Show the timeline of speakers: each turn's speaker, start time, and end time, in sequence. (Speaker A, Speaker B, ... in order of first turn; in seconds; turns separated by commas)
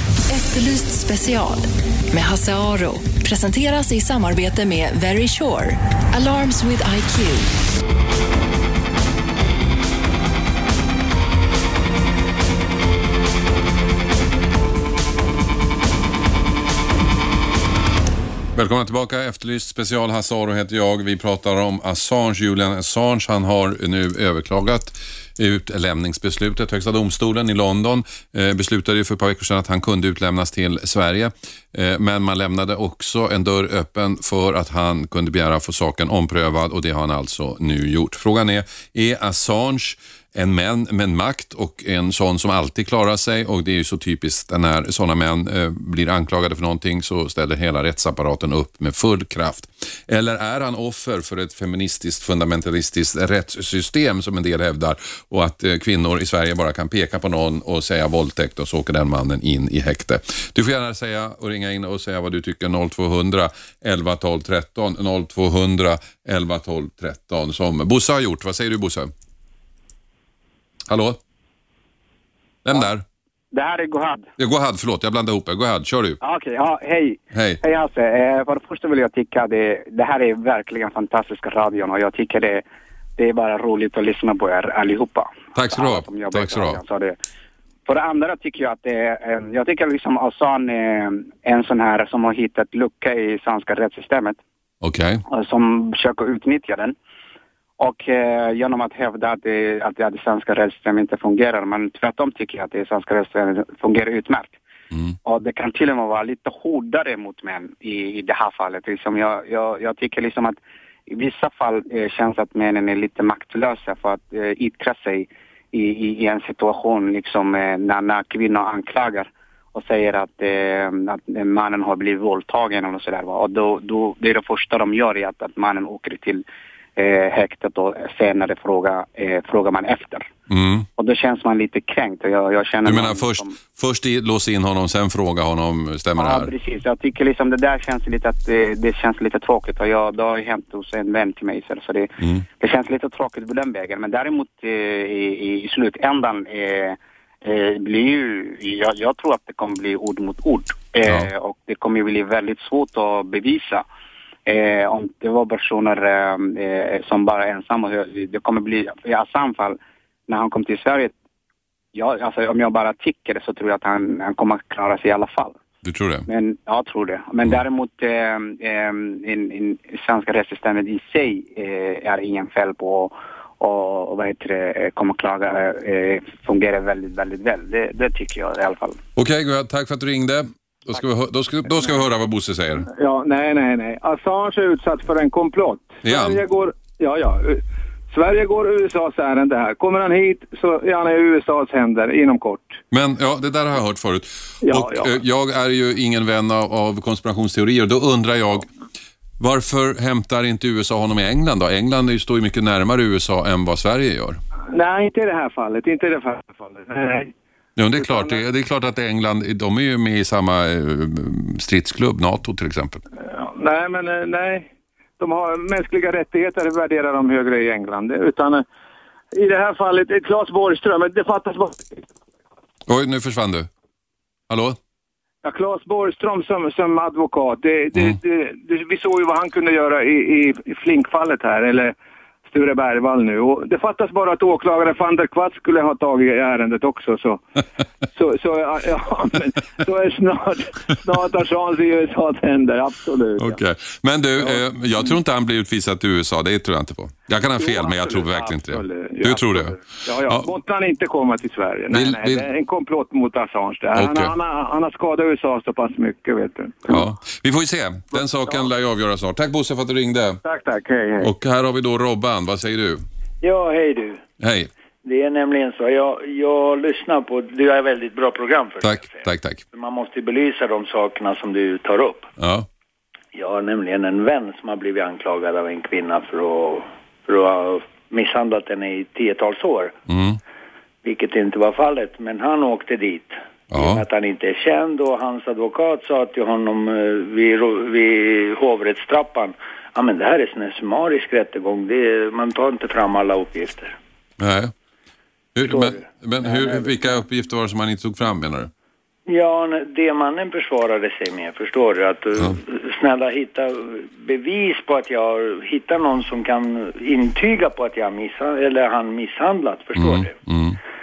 Speaker A: 0.3-7.5, Speaker B: 18.5-69.1, Speaker B: 70.9-71.2, Speaker B: 72.7-73.0, Speaker C: 73.5-74.3, Speaker B: 74.4-76.2, Speaker C: 76.2-82.7, Speaker B: 77.3-77.6, Speaker C: 83.2-87.2, Speaker B: 85.6-86.8, Speaker C: 87.9-94.4, Speaker B: 94.8-95.2, Speaker C: 95.3-97.0, Speaker C: 97.8-104.6, Speaker C: 105.2-126.4, Speaker C: 127.0-130.3, Speaker B: 130.5-130.9, Speaker C: 131.0-133.6, Speaker B: 132.8-136.5, Speaker C: 136.2-153.9, Speaker B: 151.1-151.3, Speaker C: 154.5-161.2, Speaker C: 161.9-165.6, Speaker B: 165.8-166.3, Speaker C: 166.3-179.0, Speaker B: 179.2-182.9, Speaker D: 182.9-192.8, Speaker B: 186.0-186.4, Speaker B: 192.9-198.7, Speaker D: 194.6-195.1, Speaker B: 199.4-204.4, Speaker D: 204.7-207.3, Speaker B: 207.8-213.0, Speaker D: 207.9-208.4, Speaker D: 213.2-218.7, Speaker D: 219.3-222.0, Speaker B: 222.9-223.7, Speaker B: 224.5-224.8, Speaker D: 225.4-231.9, Speaker D: 232.5-237.4, Speaker D: 238.1-243.6, Speaker B: 243.4-250.5, Speaker D: 244.4-245.2, Speaker D: 247.6-257.1, Speaker B: 251.9-252.5, Speaker B: 253.9-254.3, Speaker B: 256.9-260.4, Speaker D: 258.1-258.7, Speaker D: 260.4-261.3, Speaker B: 261.2-263.0, Speaker E: 263.4-264.2, Speaker B: 264.4-264.7, Speaker E: 265.0-272.3, Speaker B: 268.8-269.6, Speaker B: 272.4-272.7, Speaker E: 273.3-280.0, Speaker B: 280.1-280.4, Speaker E: 281.0-294.0, Speaker B: 283.7-284.0, Speaker B: 294.4-294.7, Speaker B: 295.6-298.7, Speaker E: 295.7-297.0, Speaker E: 299.3-310.4, Speaker B: 310.0-310.8